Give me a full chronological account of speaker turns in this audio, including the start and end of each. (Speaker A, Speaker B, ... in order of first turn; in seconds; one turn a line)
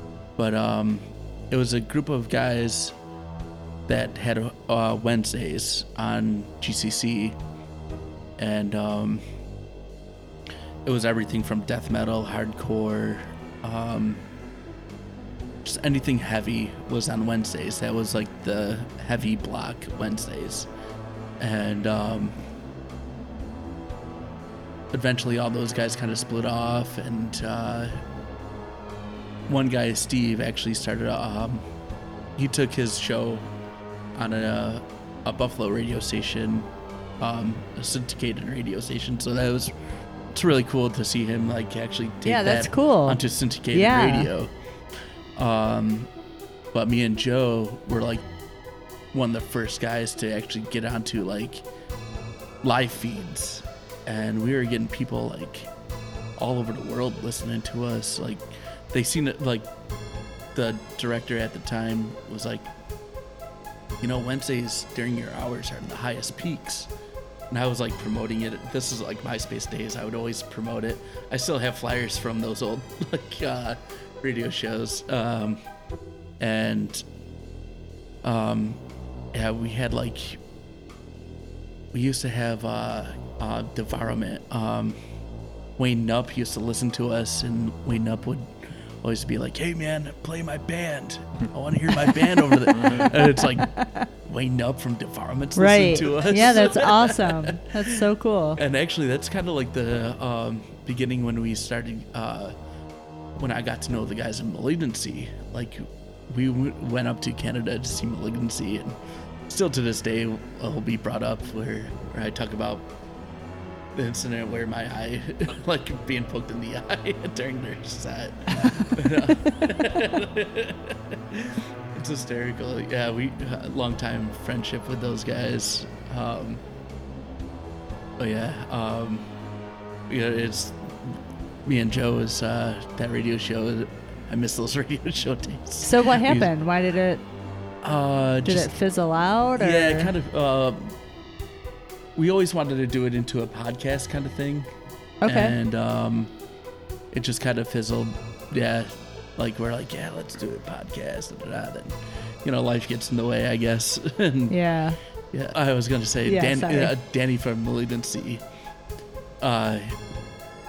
Speaker A: 0.4-2.9
Speaker A: 3.9-7.4
Speaker A: 8.4-9.2
Speaker A: 10.8-14.2
Speaker A: 15.6-20.7
Speaker A: 21.4-22.4
Speaker A: 24.9-27.9
Speaker A: 29.5-31.6
Speaker A: 32.4-33.5
Speaker A: 34.1-36.7
Speaker A: 37.2-39.7
Speaker A: 40.3-44.5
Speaker B: 42.2-43.2
Speaker B: 43.7-44.3
Speaker A: 45.4-46.1
Speaker A: 46.7-48.2
Speaker A: 49.1-51.6
Speaker A: 52.6-55.7
Speaker A: 56.4-59.7
Speaker A: 60.5-62.7
Speaker A: 64.0-66.9
Speaker A: 67.5-75.6
Speaker A: 76.4-77.0
Speaker A: 78.2-78.8
Speaker A: 79.3-80.4
Speaker A: 81.9-85.0
Speaker A: 85.8-88.5
Speaker A: 89.0-97.5
Speaker B: 92.8-94.0
Speaker B: 95.5-98.6
Speaker A: 98.6-102.5
Speaker A: 103.3-109.0
Speaker A: 109.5-112.9
Speaker A: 113.9-126.6
Speaker B: 118.6-118.9
Speaker A: 128.2-129.2
Speaker A: 130.1-136.5
Speaker B: 135.8-137.2
Speaker A: 137.8-138.7
Speaker B: 138.4-140.1
Speaker A: 139.6-140.9
Speaker A: 142.2-144.7
Speaker B: 145.2-145.5
Speaker A: 145.2-146.3
Speaker A: 147.1-154.5
Speaker B: 154.5-155.0
Speaker A: 155.3-158.4
Speaker B: 156.2-156.9
Speaker A: 159.4-160.0